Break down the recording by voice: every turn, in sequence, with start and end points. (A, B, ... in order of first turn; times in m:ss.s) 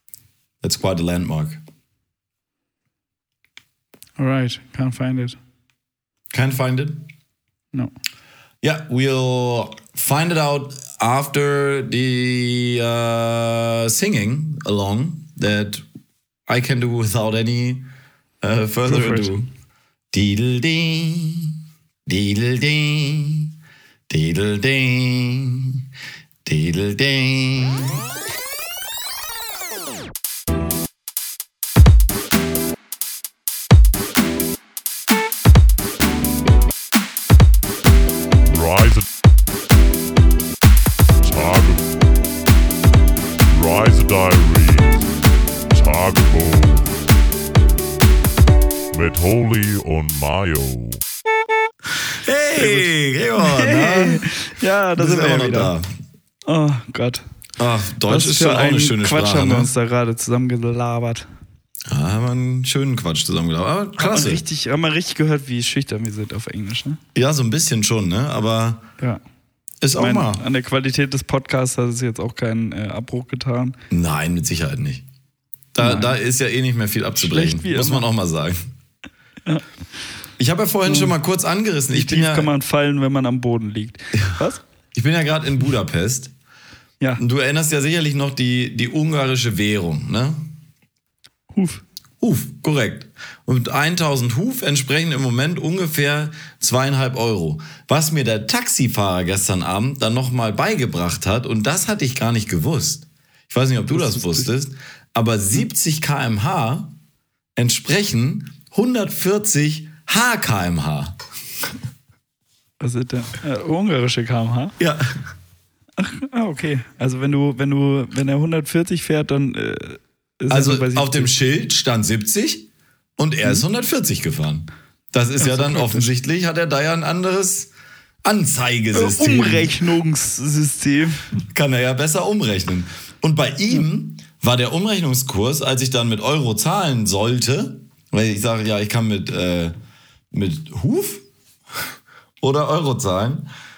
0:00.6-0:01.6 A
0:04.2-0:05.4 B
0:06.3-0:07.1 A
0:08.6-0:15.8 A
0:16.5-0:17.9 A
0:18.4-0:19.5 A
0:18.8-0:19.4 B
0:20.1-0:23.5 A
0:24.1-0:25.8 A
0:26.4-0:28.0 A
0:38.5-0:39.1 C
0:41.2-0:41.9 C
0:43.5-0:45.1 C
0:45.7-0:47.0 C
0:48.9-0:51.0 C
0:52.1-0:54.3 A
0:52.6-0:55.7 B
0:55.0-0:55.9 A
0:56.5-0:57.2 B
0:57.6-0:59.7 A
0:58.1-1:01.3 B
1:01.9-1:04.4 A
1:04.0-1:07.0 B
1:07.1-1:08.9 A
1:09.8-1:10.4 A
1:10.0-1:13.8 B
1:13.9-1:15.0 A
1:15.7-1:18.6 A
1:15.8-1:16.2 B
1:17.2-1:18.1 B
1:20.4-1:22.5 A
1:20.9-1:21.1 B
1:21.9-1:24.6 B
1:24.9-1:26.3 A
1:27.2-1:30.4 A
1:31.5-1:31.8 B
1:32.2-1:46.9 A
1:43.9-1:44.5 B
1:47.6-1:51.2 A
1:52.8-1:54.8 B
1:54.8-1:55.1 A
1:56.0-2:01.3 B
2:00.5-2:07.7 A
2:05.4-2:06.1 B
2:08.2-2:09.8 A
2:08.9-2:11.4 B
2:11.5-2:19.8 A
2:20.3-2:21.2 A
2:22.4-2:23.5 A